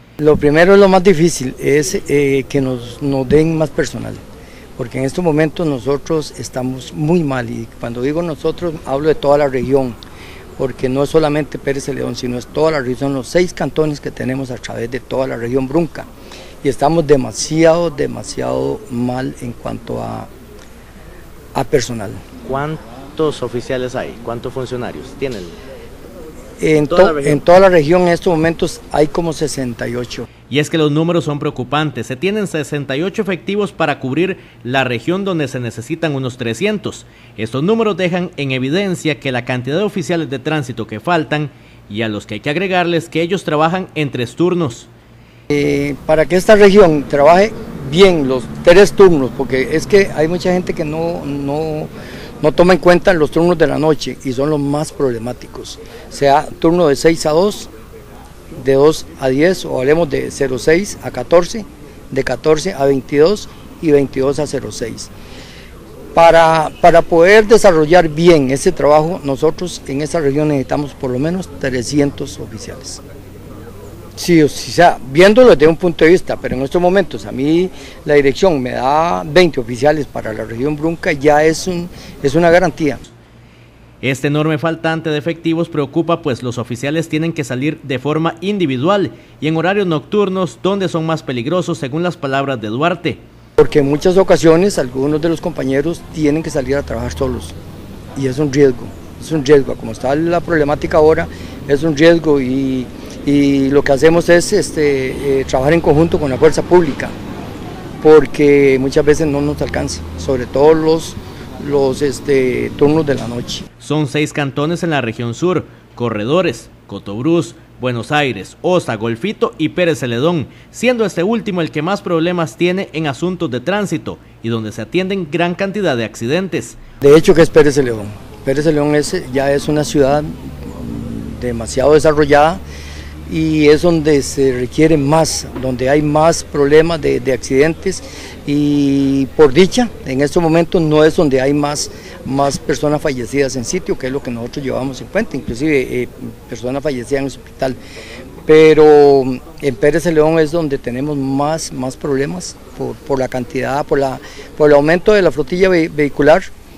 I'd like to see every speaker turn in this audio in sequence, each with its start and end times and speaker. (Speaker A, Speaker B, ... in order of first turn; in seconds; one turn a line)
Speaker A: 0.2-4.2
Speaker A: 4.8-9.9
Speaker A: 10.6-16.1
Speaker A: 16.6-20.3
Speaker A: 21.6-22.2
Speaker B: 22.4-25.6
Speaker A: 26.6-30.3
Speaker B: 26.8-27.4
Speaker B: 30.5-44.9
Speaker A: 45.5-51.9
Speaker A: 52.4-57.7
Speaker A: 58.5-65.1
Speaker A: 66.2-73.0
Speaker A: 74.2-83.0
Speaker B: 84.0-93.2
Speaker A: 93.6-97.6
Speaker A: 98.2-107.1
Speaker A: 108.0-113.7
Speaker B: 113.8-126.8
Speaker A: 127.0-132.6
Speaker A: 133.3-147.8
Speaker A: 148.5-156.4